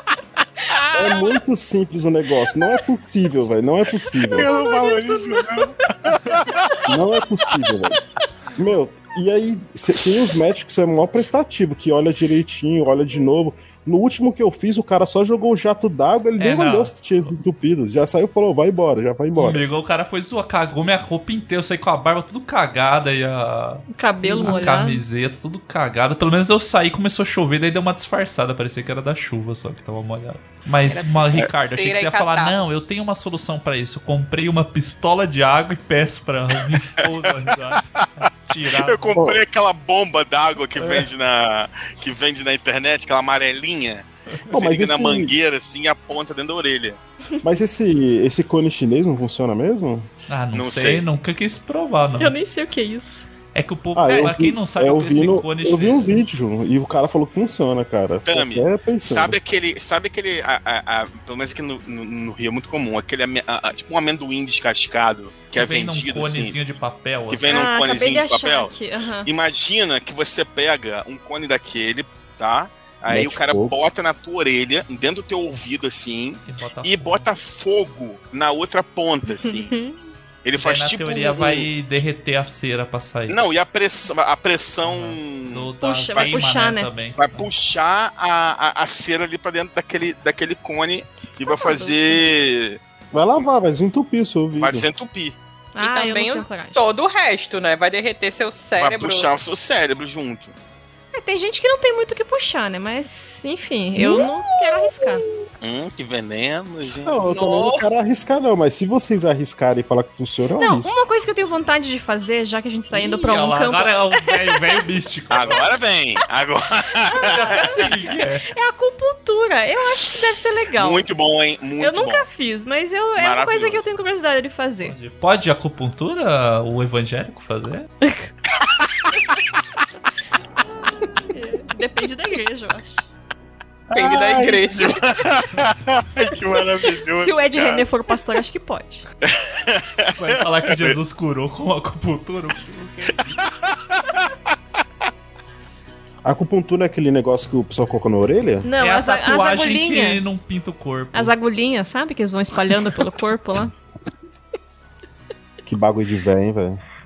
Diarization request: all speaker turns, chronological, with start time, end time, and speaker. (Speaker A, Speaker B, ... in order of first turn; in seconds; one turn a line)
Speaker A: 0.9-4.5
Speaker B: 4.2-6.5
Speaker C: 4.4-5.5
Speaker A: 6.9-8.0
Speaker A: 8.5-19.6
Speaker D: 16.4-17.0
Speaker D: 19.3-39.1
Speaker C: 23.9-25.0
Speaker E: 30.8-32.6
Speaker B: 38.7-47.0
Speaker D: 40.8-41.1
Speaker A: 44.5-45.3
Speaker A: 47.4-50.1
Speaker D: 50.3-52.3
Speaker B: 50.5-51.0
Speaker C: 52.2-53.3
Speaker D: 53.5-56.1
Speaker A: 53.9-59.4
Speaker B: 58.3-66.5
Speaker D: 65.5-67.4
Speaker B: 67.3-68.7
Speaker C: 67.5-69.3
Speaker B: 69.2-79.7
Speaker A: 73.1-73.7
Speaker D: 76.5-77.2
Speaker C: 79.4-80.0
Speaker B: 80.4-81.7
Speaker D: 80.6-83.4
Speaker B: 83.3-86.4
Speaker D: 84.8-87.5
Speaker C: 85.8-86.9
Speaker B: 87.2-92.8
Speaker C: 91.3-92.2
Speaker A: 93.1-94.9
Speaker B: 94.6-95.4
Speaker C: 95.7-96.8
Speaker E: 95.8-99.3
Speaker B: 98.8-100.5
Speaker C: 101.1-105.2
Speaker A: 104.0-104.2
Speaker B: 105.6-107.2
Speaker A: 107.0-110.9
Speaker E: 107.3-107.8
Speaker C: 110.6-114.3
Speaker D: 112.9-115.7
Speaker B: 115.3-117.9
Speaker C: 117.1-117.9
Speaker D: 117.2-118.5
Speaker C: 118.5-121.0
Speaker B: 120.7-122.2
Speaker C: 121.8-124.9
Speaker B: 123.2-123.9
Speaker D: 124.8-127.9
Speaker C: 128.0-128.3
Speaker C: 131.3-133.1
Speaker E: 133.9-134.9
Speaker B: 133.9-137.8
Speaker C: 137.2-139.1
Speaker B: 139.3-141.0
Speaker D: 140.1-143.3
Speaker B: 143.5-144.0
Speaker A: 146.2-148.7
Speaker C: 148.6-150.4
Speaker D: 148.8-151.3
Speaker C: 151.1-153.7
Speaker A: 155.7-156.8